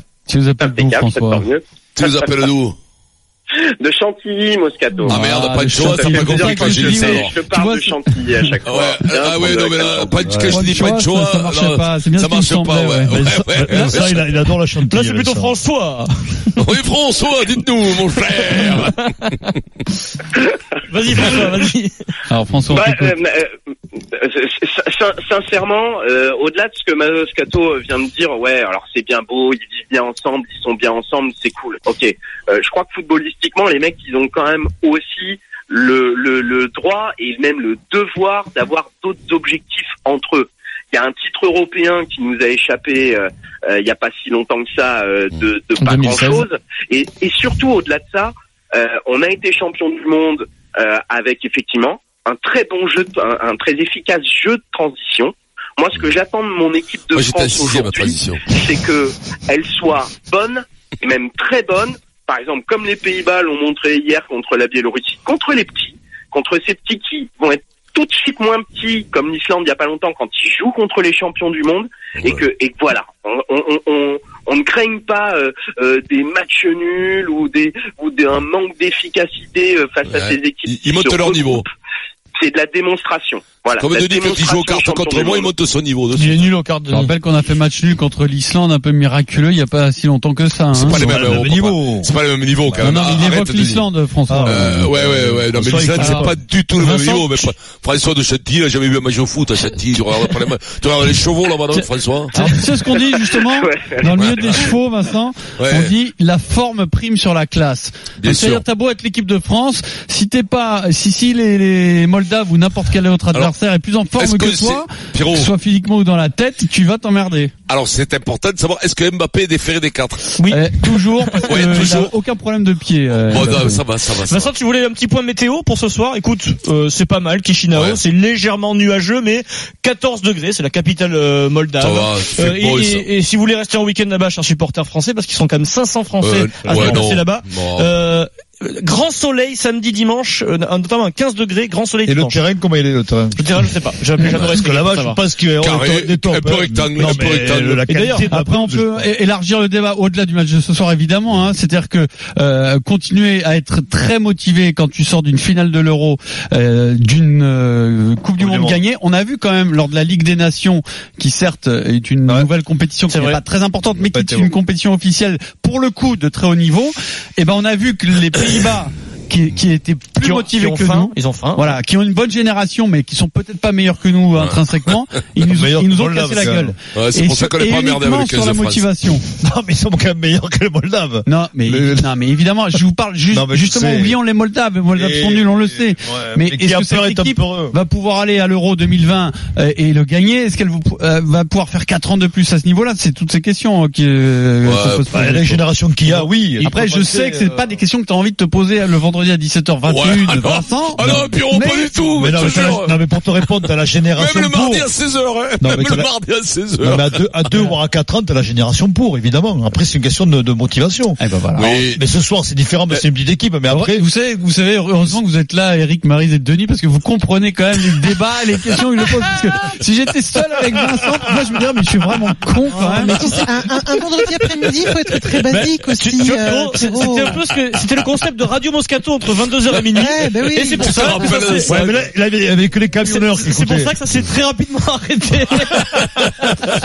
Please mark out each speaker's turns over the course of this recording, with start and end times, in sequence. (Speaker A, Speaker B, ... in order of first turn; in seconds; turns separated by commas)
Speaker A: 0.3-1.5, Speaker B: 0.6-1.6, Speaker C: 2.0-2.8, Speaker B: 3.8-5.2, Speaker A: 5.0-8.6, Speaker C: 5.1-7.5, Speaker B: 5.8-10.1, Speaker C: 8.6-14.3, Speaker D: 10.2-10.6, Speaker A: 10.5-14.0, Speaker D: 13.1-15.5, Speaker E: 14.9-16.6, Speaker C: 16.6-19.5, Speaker E: 20.9-21.9, Speaker A: 22.3-23.1, Speaker B: 22.7-23.5, Speaker B: 24.1-81.6, Speaker E: 45.8-46.5, Speaker C: 57.1-58.6, Speaker C: 72.2-72.5, Speaker C: 80.0-81.7, Speaker B: 82.4-85.5, Speaker C: 83.8-86.5, Speaker E: 86.1-87.1, Speaker A: 86.9-91.0, Speaker C: 90.8-93.9, Speaker D: 90.9-92.1, Speaker D: 92.6-93.4, Speaker A: 92.8-94.9, Speaker D: 94.3-96.4, Speaker C: 94.5-102.3, Speaker E: 96.0-97.5, Speaker E: 101.7-102.8, Speaker A: 102.3-117.5, Speaker B: 103.3-104.1, Speaker C: 104.2-104.5, Speaker C: 105.6-105.9, Speaker C: 108.2-108.6, Speaker C: 114.2-115.5, Speaker C: 117.7-120.3, Speaker E: 120.3-121.6, Speaker A: 120.5-123.8, Speaker C: 121.5-122.1, Speaker C: 123.3-124.5, Speaker E: 124.2-142.4, Speaker C: 127.7-128.0, Speaker C: 131.8-133.1, Speaker C: 136.2-138.0, Speaker D: 136.7-137.2, Speaker D: 142.1-143.4, Speaker E: 143.3-145.2, Speaker C: 144.2-144.5, Speaker D: 144.5-149.1, Speaker C: 145.6-147.9, Speaker E: 147.9-148.4, Speaker A: 148.3-179.2, Speaker D: 158.4-158.8, Speaker E: 163.1-163.4, Speaker D: 164.0-164.5, Speaker E: 170.2-171.8, Speaker C: 174.4-174.9, Speaker D: 175.5-176.8, Speaker C: 176.9-178.9, Speaker D: 179.4-182.1, Speaker A: 181.3-202.8, Speaker D: 183.3-184.2, Speaker D: 184.9-187.8, Speaker C: 194.6-195.1, Speaker D: 195.1-197.7, Speaker C: 199.9-207.7, Speaker D: 201.0-201.3, Speaker D: 202.2-204.9, Speaker D: 205.6-206.1, Speaker D: 206.7-214.1, Speaker A: 211.2-211.8, Speaker C: 211.6-212.1, Speaker A: 213.7-223.3, Speaker F: 222.9-227.4, Speaker E: 225.5-232.0, Speaker F: 229.9-231.6, Speaker C: 230.8-231.8, Speaker D: 231.7-233.9, Speaker E: 233.0-236.4